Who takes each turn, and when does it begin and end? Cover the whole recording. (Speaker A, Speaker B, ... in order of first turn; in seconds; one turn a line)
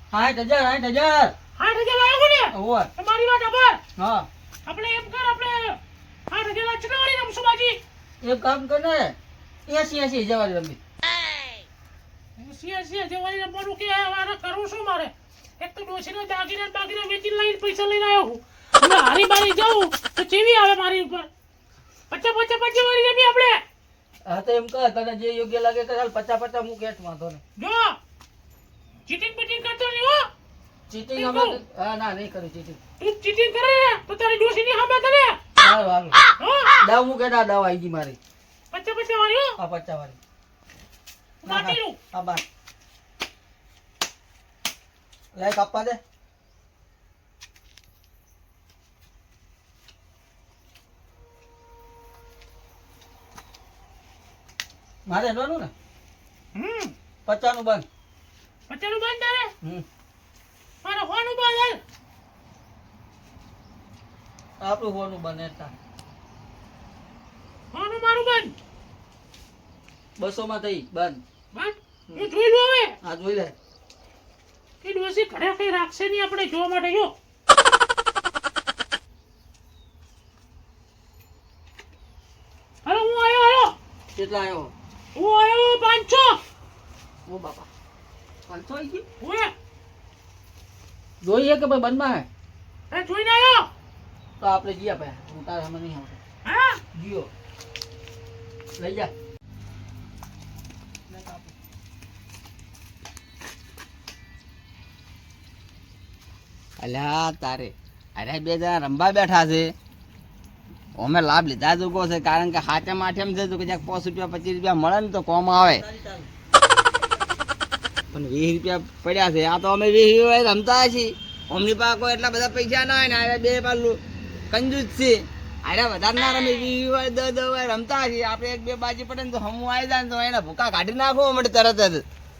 Speaker A: 0.1-1.4
Speaker B: 1.6-3.8
Speaker A: 2.5-2.9
Speaker A: 4.0-4.3
Speaker B: 4.7-5.8
Speaker B: 6.3-7.8
Speaker A: 8.2-10.8
Speaker B: 12.4-21.3
Speaker B: 22.1-23.6
Speaker A: 24.2-27.4
Speaker B: 27.6-28.0
Speaker B: 29.1-30.3
Speaker A: 30.9-32.8
Speaker B: 31.1-31.6
Speaker B: 33.0-35.4
Speaker A: 35.6-36.2
Speaker B: 36.4-36.8
Speaker A: 36.8-38.2
Speaker B: 38.7-39.5
Speaker A: 39.6-40.2
Speaker B: 41.4-42.0
Speaker A: 41.4-42.4
Speaker A: 45.3-46.0
Speaker A: 55.1-55.7
Speaker B: 56.5-56.9
Speaker A: 57.2-57.9
Speaker B: 58.7-59.5
Speaker B: 60.8-61.8
Speaker A: 64.6-65.7
Speaker B: 67.7-68.6
Speaker A: 70.2-71.2
Speaker B: 71.5-73.0
Speaker A: 73.0-73.5
Speaker B: 74.8-77.2
Speaker B: 82.8-83.8
Speaker A: 84.1-84.7
Speaker B: 85.2-86.4
Speaker A: 87.3-87.7
Speaker A: 88.5-89.0
Speaker B: 89.2-89.5
Speaker A: 91.2-92.3
Speaker B: 92.9-93.7
Speaker A: 94.4-96.2
Speaker B: 96.4-96.8
Speaker A: 96.9-97.3
Speaker A: 98.8-99.1
Speaker A: 101.1-101.5
Speaker C: 106.8-109.7
Speaker C: 111.0-115.8
Speaker A: 115.6-116.3
Speaker C: 118.1-124.0
Speaker C: 124.5-132.0